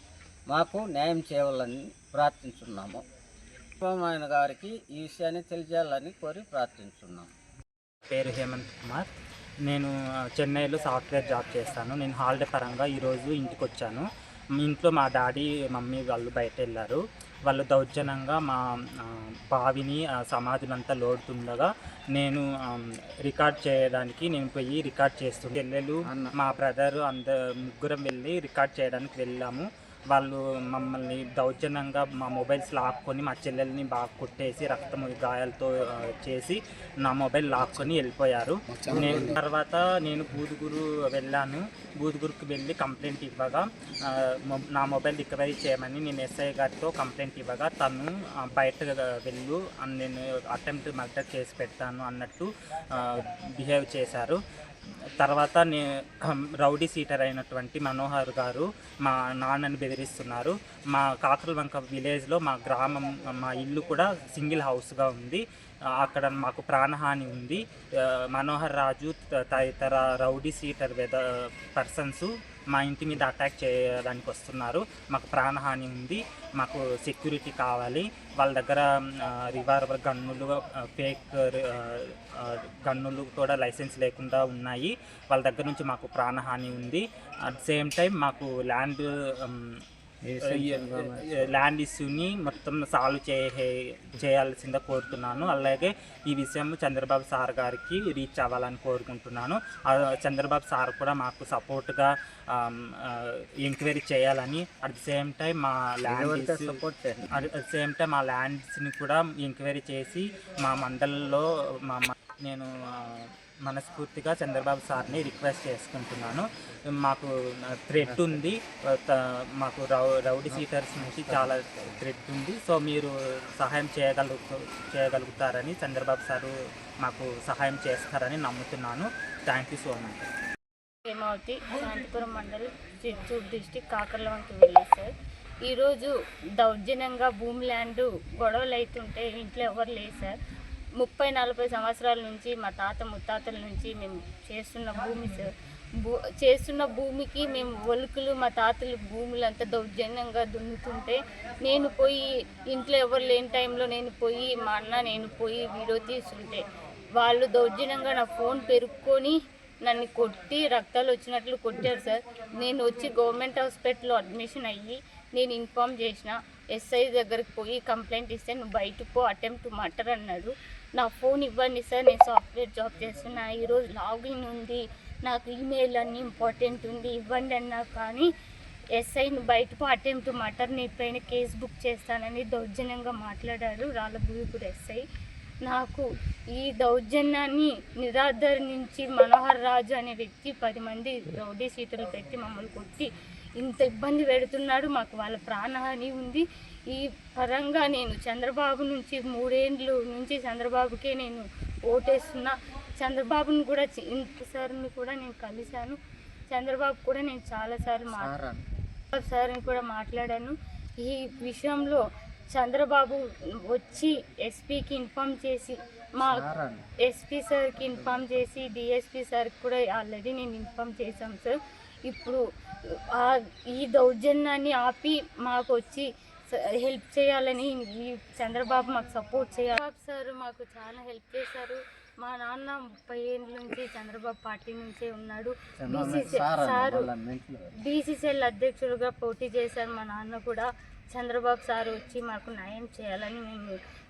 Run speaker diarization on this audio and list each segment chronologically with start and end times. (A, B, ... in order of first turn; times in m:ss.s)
0:00.5-0:03.0 A
0:03.8-0:07.3 A
0:08.1-0:09.1 B
0:09.6-0:14.0 B
0:14.6-0:54.4 B
0:26.0-0:26.3 A
0:38.8-0:39.3 A
0:55.2-1:05.4 B
1:06.0-1:29.8 B
1:30.2-1:31.4 A
1:30.4-1:46.8 B
1:46.0-1:47.3 A
1:47.3-1:56.5 B
1:57.0-2:10.3 B
1:58.0-1:58.4 A
2:00.5-2:01.5 A
2:11.0-2:15.1 C
2:15.6-2:20.4 C
2:21.0-2:36.6 C
2:37.2-2:58.3 C
2:58.9-3:05.0 C
3:05.6-3:06.0 C
3:06.5-3:26.0 C
3:26.5-3:28.4 C
3:28.2-3:28.6 A
3:29.1-3:42.4 C
3:36.2-3:36.8 A
3:43.0-3:57.0 C
3:55.8-3:57.7 A
3:57.8-4:03.8 C